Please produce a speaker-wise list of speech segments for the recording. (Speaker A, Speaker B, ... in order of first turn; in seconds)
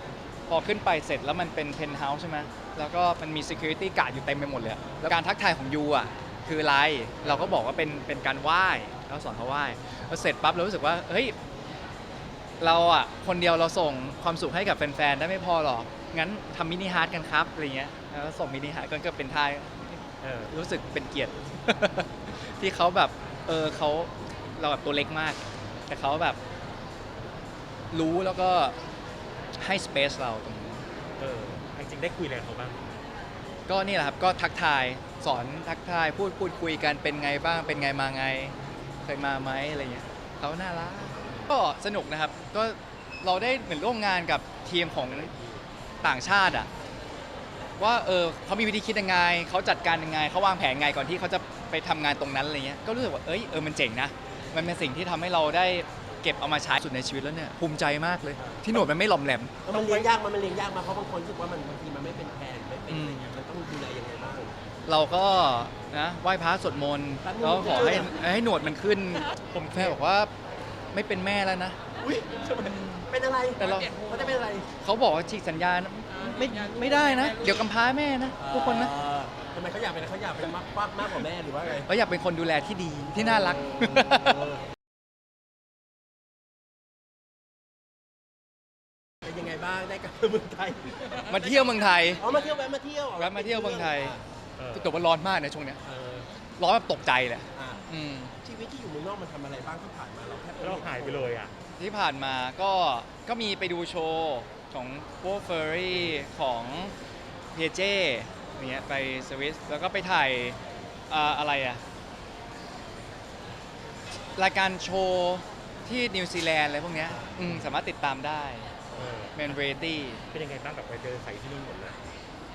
Speaker A: 0.5-11.3, 12.6-26.4, 27.9-28.8, 29.6-30.8, 33.7-45.3, 46.0-46.7, 47.8-60.0, 62.9-63.3, 64.8-70.3, 70.9-71.8, 72.6-73.1, 73.6-78.9, 81.8-84.5, 91.2-92.2, 93.2-94.2, 94.7-95.8, 96.6-98.3, 101.8-106.9, 107.5-110.6, 111.1-111.8, 114.3-118.7, 119.3-120.2
Speaker B: 7.2-7.5, 20.2-20.5, 31.2-32.9, 41.3-41.5, 69.5-70.0, 94.6-95.0, 100.6-101.5, 118.9-119.6, 120.3-122.0
Speaker C: 58.4-58.6, 59.6-64.5, 67.2-68.2, 72.0-74.7, 78.4-81.9, 89.2-91.2, 92.2-94.2, 97.5-97.8, 98.4-101.3, 117.1-117.4